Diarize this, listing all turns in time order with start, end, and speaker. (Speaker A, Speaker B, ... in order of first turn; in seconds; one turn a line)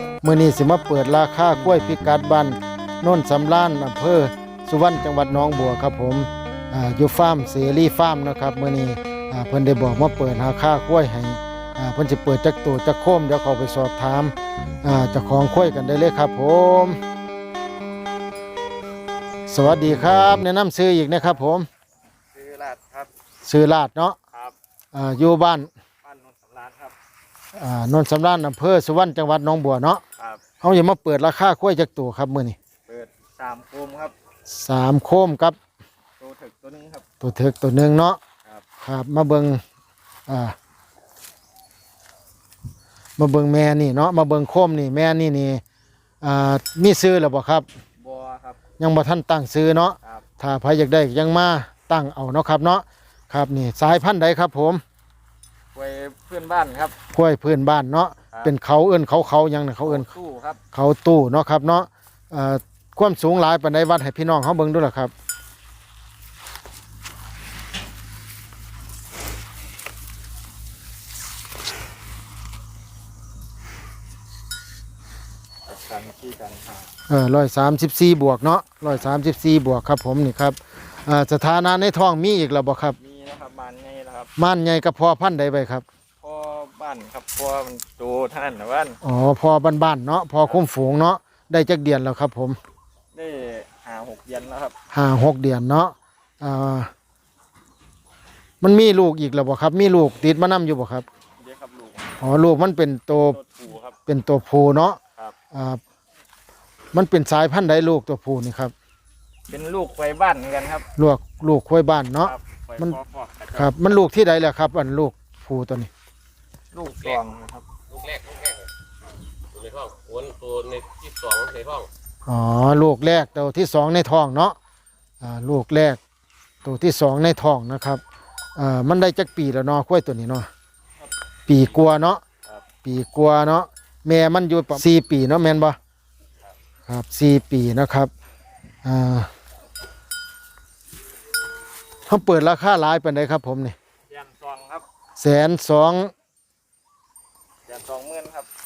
Speaker A: 0.2-17.0
Speaker A: 19.5-21.7
Speaker B: 22.3-23.1
Speaker A: 23.5-24.2
Speaker A: 24.9-25.7
Speaker B: 26.0-26.9
Speaker A: 27.6-30.0
Speaker B: 30.2-30.4
Speaker A: 30.6-32.6
Speaker B: 32.9-34.1
Speaker A: 34.5-35.6
Speaker B: 36.2-37.1
Speaker A: 37.2-38.2
Speaker A: 38.8-39.6
Speaker A: 40.3-40.6
Speaker A: 43.2-45.6
Speaker A: 46.2-47.6
Speaker B: 48.0-48.6
Speaker A: 48.8-54.8
Speaker B: 55.8-57.0
Speaker A: 57.1-60.1
Speaker B: 59.8-60.6
Speaker A: 60.7-65.1
Speaker B: 75.7-76.9
Speaker A: 77.1-83.0
Speaker B: 83.0-84.3
Speaker A: 84.4-85.8
Speaker B: 86.2-89.0
Speaker A: 89.0-92.6
Speaker B: 93.1-94.8
Speaker A: 94.9-96.9
Speaker A: 98.6-101.1
Speaker B: 101.4-102.2
Speaker A: 102.2-103.4
Speaker B: 103.1-104.0
Speaker A: 104.1-105.0
Speaker A: 105.5-105.8
Speaker A: 106.9-108.7
Speaker B: 109.5-110.9
Speaker A: 111.0-113.0
Speaker B: 112.2-113.7
Speaker A: 113.5-115.9
Speaker B: 116.7-117.7
Speaker C: 118.0-118.6
Speaker C: 119.6-121.9
Speaker A: 122.3-124.5
Speaker A: 125.2-126.0
Speaker A: 126.6-128.0
Speaker A: 128.6-130.5
Speaker A: 131.5-132.2
Speaker A: 132.8-135.8
Speaker A: 136.9-138.1
Speaker A: 138.8-139.3
Speaker A: 142.1-143.8
Speaker B: 144.1-144.8
Speaker A: 145.2-146.1
Speaker B: 147.7-148.5